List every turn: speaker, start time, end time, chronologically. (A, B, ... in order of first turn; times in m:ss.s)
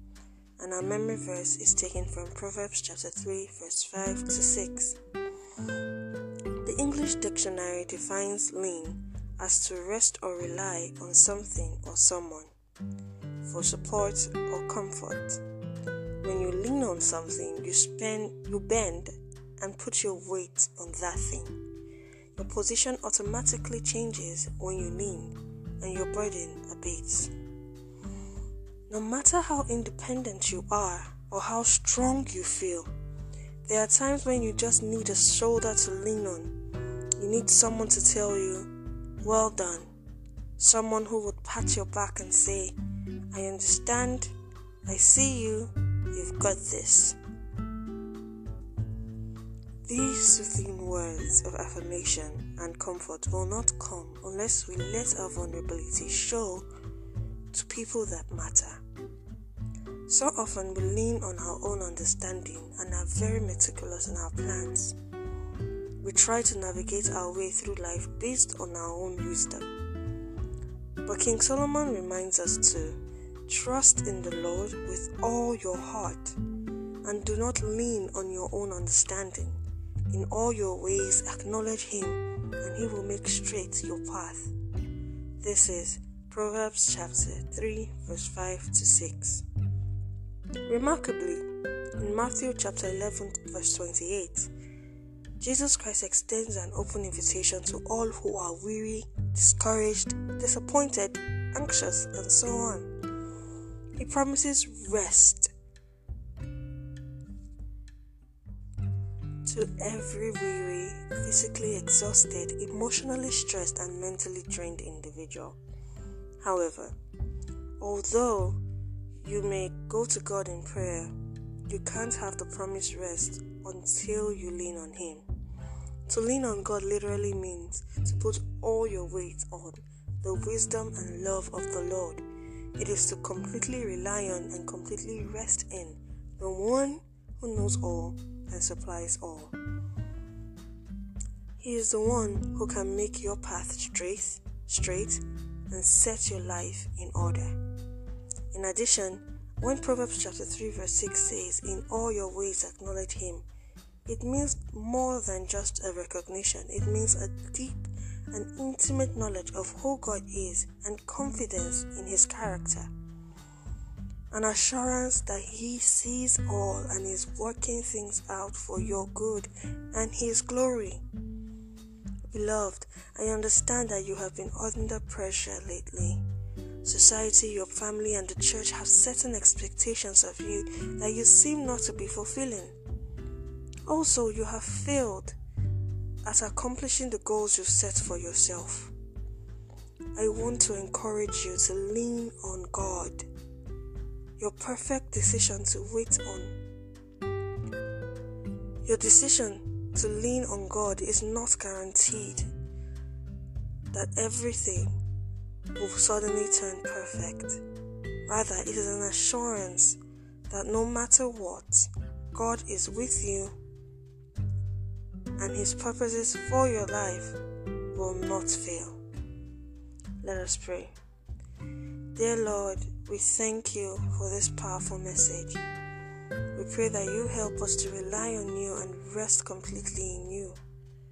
0:00.6-0:05.0 A
0:06.6-0:12.5 A
0:13.4-0:15.4 A
0:16.2-0:21.6 A
0:22.4-0:27.3 A
0:28.9-0:32.9 A
0:33.6-0:36.5 A
0:37.2-0:38.7 A
0:39.2-0:39.9 A
0:40.6-0:42.8 A
0:43.3-0:44.3 A
0:44.8-0:47.2 A
0:49.8-0:56.7 A
0:57.5-0:58.8 A
1:00.1-1:05.0 A
1:06.0-1:09.7 A
1:11.0-1:16.4 A
1:17.0-1:19.6 A
1:20.1-1:24.5 A
1:25.4-1:29.4 A
1:30.7-1:31.4 A
1:32.0-1:34.5 A
1:35.4-1:42.9 A
1:44.0-1:45.5 A
1:49.4-1:55.6 A
1:56.4-1:57.0 A
1:57.8-1:58.6 A
1:59.2-2:01.1 A
2:01.7-2:05.2 A
2:06.0-2:12.2 A
2:12.8-2:19.5 A
2:21.6-2:27.6 A
2:28.5-2:33.4 A
2:34.1-2:42.9 A
2:44.3-2:51.0 A
2:52.3-2:56.2 A
2:56.8-3:02.8 A
3:03.9-3:05.4 A
3:06.2-3:08.9 A
3:10.1-3:13.3 A
3:14.4-3:16.5 A
3:18.8-3:22.5 A
3:23.9-3:24.9 A
3:25.8-3:27.6 A
3:28.2-3:33.5 A
3:35.4-3:37.4 A
3:37.9-3:39.0 A
3:40.2-3:40.9 A
3:42.1-3:45.6 A
3:46.5-3:50.6 A